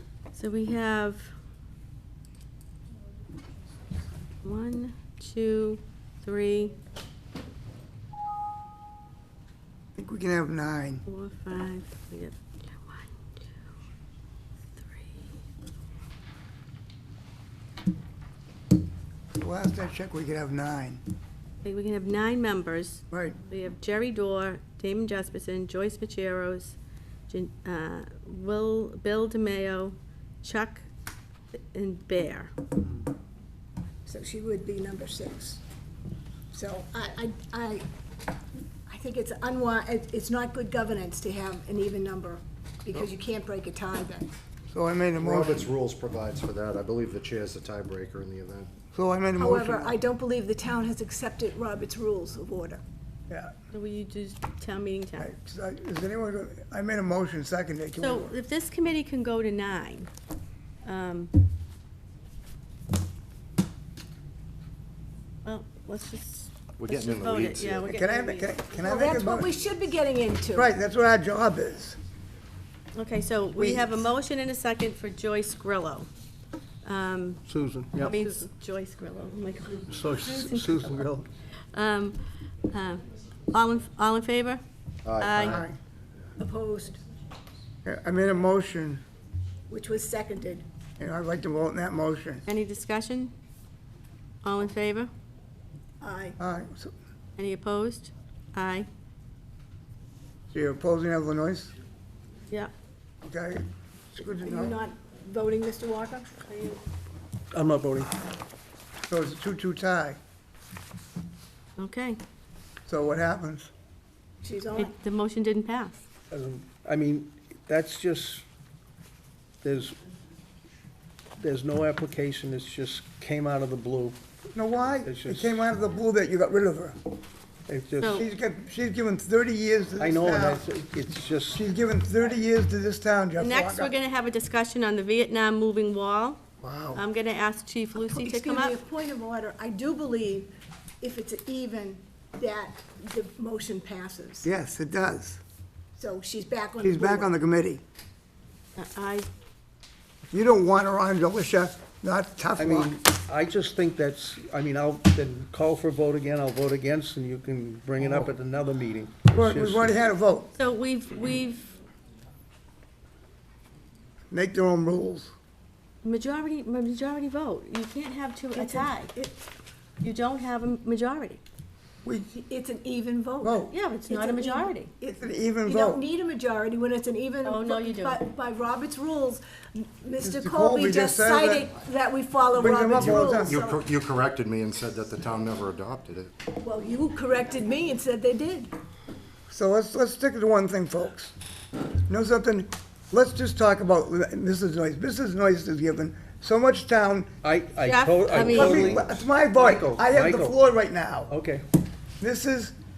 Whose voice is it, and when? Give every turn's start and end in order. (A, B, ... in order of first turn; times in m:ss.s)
0:00.3-0:01.3 A
0:04.4-0:06.7 A
0:09.9-0:11.0 B
0:11.0-0:13.4 A
0:14.8-0:15.1 A
0:19.4-0:21.0 B
0:21.6-0:26.8 A
0:23.1-0:23.4 B
0:27.3-0:30.9 A
0:31.5-0:32.5 A
0:34.0-0:35.6 C
0:36.5-0:37.8 C
0:38.9-0:44.3 C
0:44.7-0:45.6 B
0:45.2-0:48.7 D
0:48.9-0:49.9 B
0:49.4-0:52.8 C
0:53.7-0:55.3 A
0:55.2-0:58.3 B
0:58.0-1:00.1 A
1:00.8-1:01.3 A
1:05.4-1:08.6 A
1:06.8-1:07.8 D
1:07.7-1:09.5 B
1:08.8-1:10.7 C
1:10.5-1:12.0 B
1:12.9-1:16.1 A
1:13.6-1:14.0 B
1:16.8-1:17.4 A
1:17.5-1:18.4 E
1:18.0-1:21.1 A
1:19.9-1:21.3 E
1:21.7-1:22.2 A
1:22.7-1:23.0 A
1:23.5-1:24.6 A
1:25.0-1:25.6 D
1:25.2-1:25.6 A
1:25.4-1:25.8 B
1:26.4-1:27.0 C
1:27.8-1:29.0 B
1:29.7-1:30.6 C
1:31.0-1:32.4 B
1:32.4-1:33.3 A
1:34.4-1:35.1 A
1:36.0-1:36.4 C
1:36.4-1:36.9 B
1:37.4-1:38.9 A
1:40.5-1:41.7 B
1:43.2-1:44.8 B
1:44.4-1:46.3 C
1:46.4-1:46.8 A
1:47.5-1:48.1 E
1:49.1-1:50.2 B
1:51.8-1:52.2 A
1:52.8-1:53.7 B
1:54.4-1:54.9 C
1:54.7-1:56.0 A
1:56.3-1:58.4 E
1:59.6-2:00.0 E
2:01.4-2:04.2 E
2:04.5-2:07.0 B
2:05.0-2:05.6 E
2:07.7-2:08.2 E
2:08.1-2:10.6 B
2:10.0-2:11.6 E
2:11.5-2:13.9 B
2:13.4-2:16.4 A
2:16.6-2:17.0 B
2:16.9-2:18.8 A
2:18.0-2:24.5 C
2:24.4-2:25.4 B
2:26.0-2:27.3 C
2:26.8-2:27.8 B
2:28.8-2:29.3 A
2:30.3-2:33.0 B
2:32.6-2:39.9 E
2:39.3-2:40.5 B
2:40.6-2:41.7 A
2:44.3-2:45.3 B
2:46.0-2:49.1 A
2:48.5-2:49.4 C
2:50.0-2:51.4 A
2:52.3-3:03.8 C
2:53.4-2:53.7 B
2:53.7-2:54.9 A
2:55.1-2:56.0 B
2:57.4-2:58.2 A
3:00.2-3:01.7 B
3:02.6-3:03.6 B
3:03.1-3:06.3 D
3:06.6-3:08.7 C
3:09.5-3:11.3 B
3:12.1-3:17.3 B
3:17.4-3:20.6 E
3:17.8-3:18.9 A
3:18.4-3:21.3 B
3:21.3-3:21.6 E
3:22.2-3:22.7 B